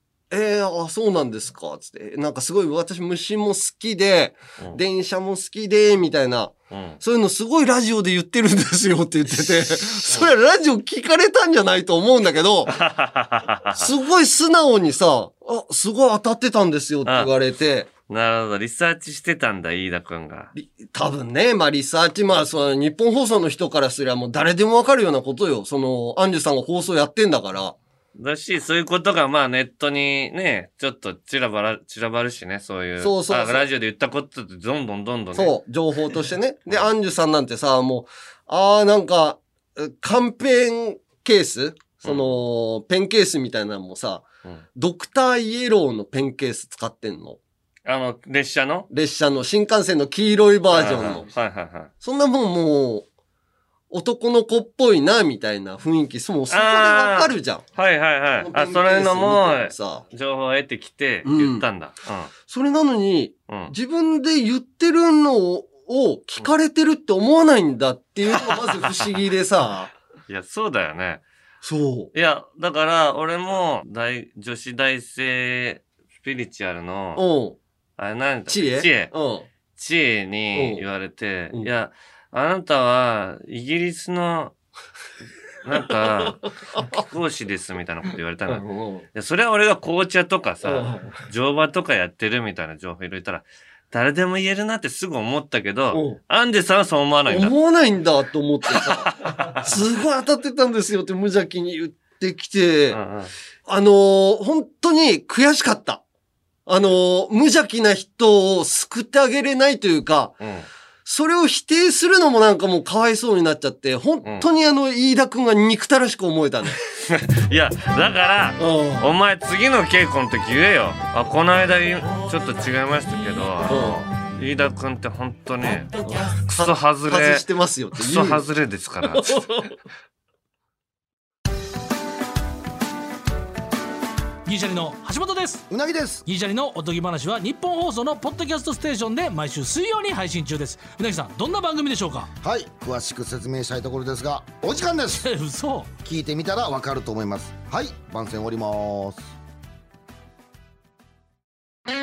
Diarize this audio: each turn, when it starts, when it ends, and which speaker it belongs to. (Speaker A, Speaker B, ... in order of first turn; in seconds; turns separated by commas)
Speaker A: 0.3-12.8, Speaker B: 6.7-7.0, Speaker B: 12.7-13.9, Speaker A: 13.7-17.9, Speaker B: 17.1-17.3, Speaker B: 18.1-20.5, Speaker A: 20.6-27.8, Speaker B: 28.2-35.6, Speaker A: 33.0-33.7, Speaker A: 35.3-47.4, Speaker B: 42.0-42.4, Speaker B: 47.9-48.9, Speaker A: 48.9-51.3, Speaker B: 50.7-51.9, Speaker A: 52.0-53.1, Speaker A: 53.9-57.6, Speaker B: 56.5-62.3, Speaker A: 58.4-60.0, Speaker A: 61.2-61.7, Speaker A: 62.5-69.9, Speaker B: 63.5-63.7, Speaker B: 68.3-69.1, Speaker B: 70.3-71.2, Speaker A: 71.6-72.1, Speaker B: 72.1-77.2, Speaker A: 77.2-77.6, Speaker B: 78.0-79.1, Speaker A: 78.5-79.5, Speaker B: 79.8-84.5, Speaker A: 80.5-80.8, Speaker B: 85.6-97.5, Speaker A: 88.5-89.1, Speaker A: 90.6-91.2, Speaker A: 95.9-96.2, Speaker A: 97.3-103.0, Speaker B: 98.8-99.7, Speaker B: 102.9-103.3, Speaker A: 103.7-106.0, Speaker A: 106.7-110.4, Speaker B: 110.4-110.7, Speaker A: 111.0-116.8, Speaker B: 117.1-127.5, Speaker A: 118.6-119.1, Speaker A: 123.7-124.0, Speaker A: 126.0-128.4, Speaker B: 128.0-129.6, Speaker A: 129.0-129.7, Speaker C: 134.5-135.7, Speaker D: 135.7-136.2, Speaker C: 136.2-142.3, Speaker D: 142.4-145.2, Speaker C: 145.2-145.9, Speaker D: 146.0-149.3